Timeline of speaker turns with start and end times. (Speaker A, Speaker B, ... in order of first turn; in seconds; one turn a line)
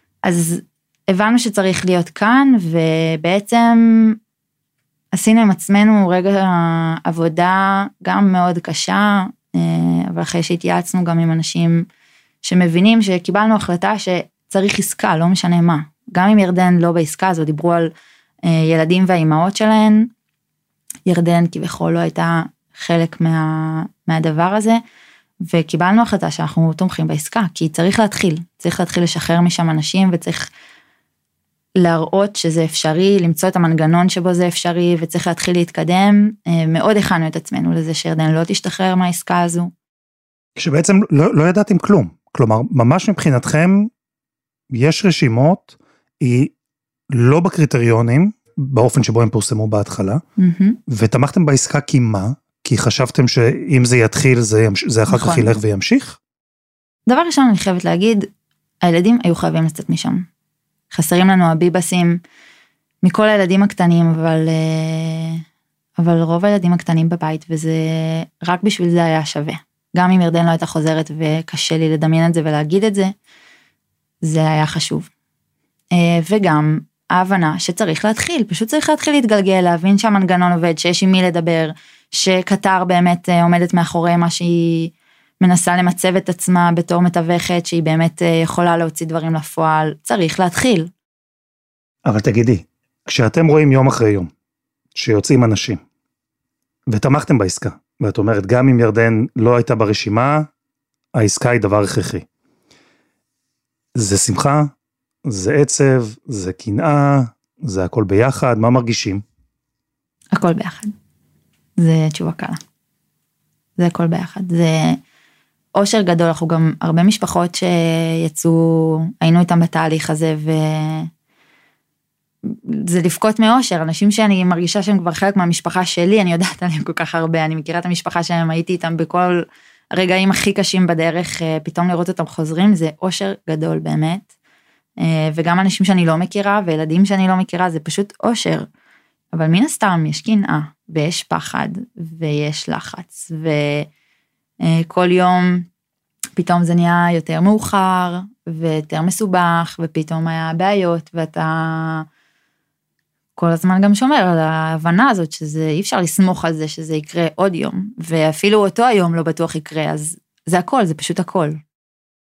Speaker A: 0.2-4.2
Speaker A: 5.1-11.9
Speaker A: 12.4-17.9
Speaker A: 18.4-20.1
Speaker A: 21.1-24.8
Speaker A: 25.4-30.5
Speaker A: 31.8-39.7
Speaker B: 40.6-43.9
Speaker B: 44.7-46.5
Speaker B: 47.1-50.2
Speaker A: 50.4-50.8
Speaker B: 50.9-56.2
Speaker A: 55.1-55.6
Speaker A: 57.1-58.3
Speaker A: 58.8-60.3
Speaker A: 60.9-62.2
Speaker A: 63.0-65.4
Speaker A: 66.0-73.1
Speaker A: 74.2-75.1
Speaker A: 75.9-90.9
Speaker B: 92.1-94.3
Speaker B: 95.0-95.8
Speaker B: 96.9-100.5
Speaker B: 101.2-102.2
Speaker B: 104.0-104.7
Speaker B: 105.3-109.2
Speaker A: 110.3-110.9
Speaker A: 111.8-112.6
Speaker A: 113.8-115.0
Speaker A: 115.8-121.1
Speaker A: 122.5-134.2
Speaker A: 135.0-138.7
Speaker A: 139.3-143.9
Speaker A: 144.6-145.7
Speaker A: 146.4-152.1
Speaker A: 153.4-161.6